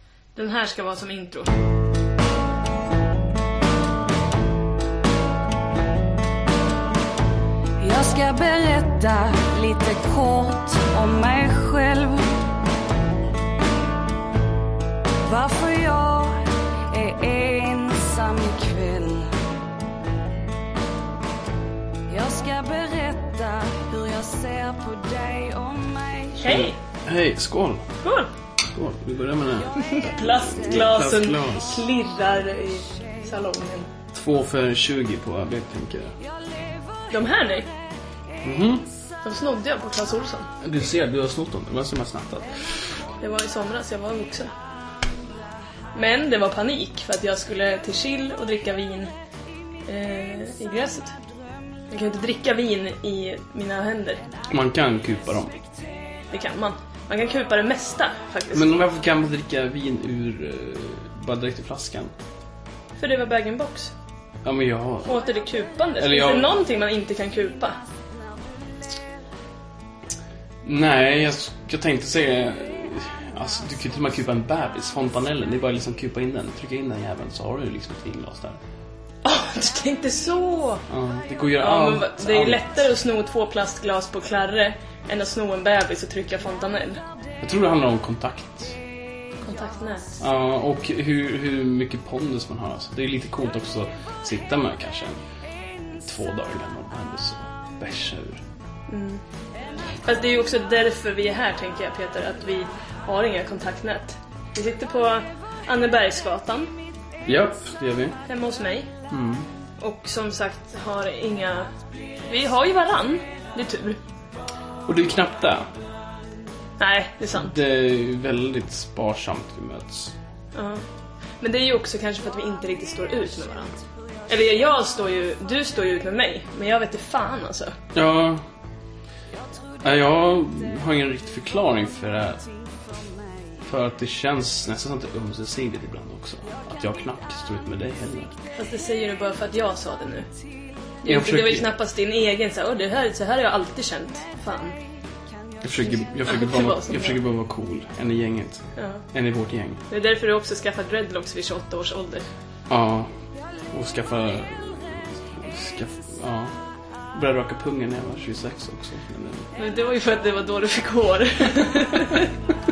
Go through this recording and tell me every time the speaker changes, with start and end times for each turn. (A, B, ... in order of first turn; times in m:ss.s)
0:00.3-0:01.5 A
0:07.8-0:12.3 B
0:15.2-0:19.3 B
0:22.1-0:26.4 B
0:26.4-0:26.8 A
0:26.4-0:27.9 C
0:28.0-0:28.3 A
0:28.7-0:31.9 C
0:29.7-0:33.9 A
0:34.1-0:36.2 C
0:37.1-0:37.7 A
0:38.4-0:38.9 C
0:39.2-0:40.5 A
0:40.6-0:42.9 C
0:43.2-0:44.5 A
0:45.9-0:49.1 A
0:49.8-0:51.2 A
0:51.9-0:54.2 A
0:54.5-0:55.6 C
0:56.3-0:58.7 A
0:58.5-1:02.1 C
1:03.0-1:03.9 A
1:04.4-1:05.2 C
1:05.0-1:07.8 A
1:06.0-1:06.5 C
1:10.6-1:18.6 C
1:19.2-1:20.8 A
1:20.9-1:22.6 C
1:21.6-1:27.0 A
1:27.4-1:28.8 C
1:29.4-1:30.2 A
1:30.2-1:35.2 C
1:36.0-1:38.4 C
1:38.9-1:39.2 A
1:40.0-1:46.7 A
1:47.2-1:48.2 C
1:48.2-1:48.9 A
1:49.1-1:49.5 C
1:49.8-1:51.7 A
1:52.2-1:54.0 A
1:54.8-1:55.7 C
1:56.8-1:57.5 A
1:57.3-2:00.1 C
2:00.5-2:00.8 A
2:01.4-2:07.7 A
2:07.9-2:08.4 C
2:09.8-2:12.5 C
2:13.6-2:18.4 C
2:18.5-2:20.3 A
2:21.0-2:24.8 A
2:21.0-2:21.7 C
2:25.6-2:29.8 C
2:26.2-2:27.2 A
2:28.8-2:29.0 A
2:29.9-2:32.2 A
2:32.7-2:33.1 C
2:33.7-2:36.6 C
2:37.1-2:39.5 C
2:39.5-2:42.3 A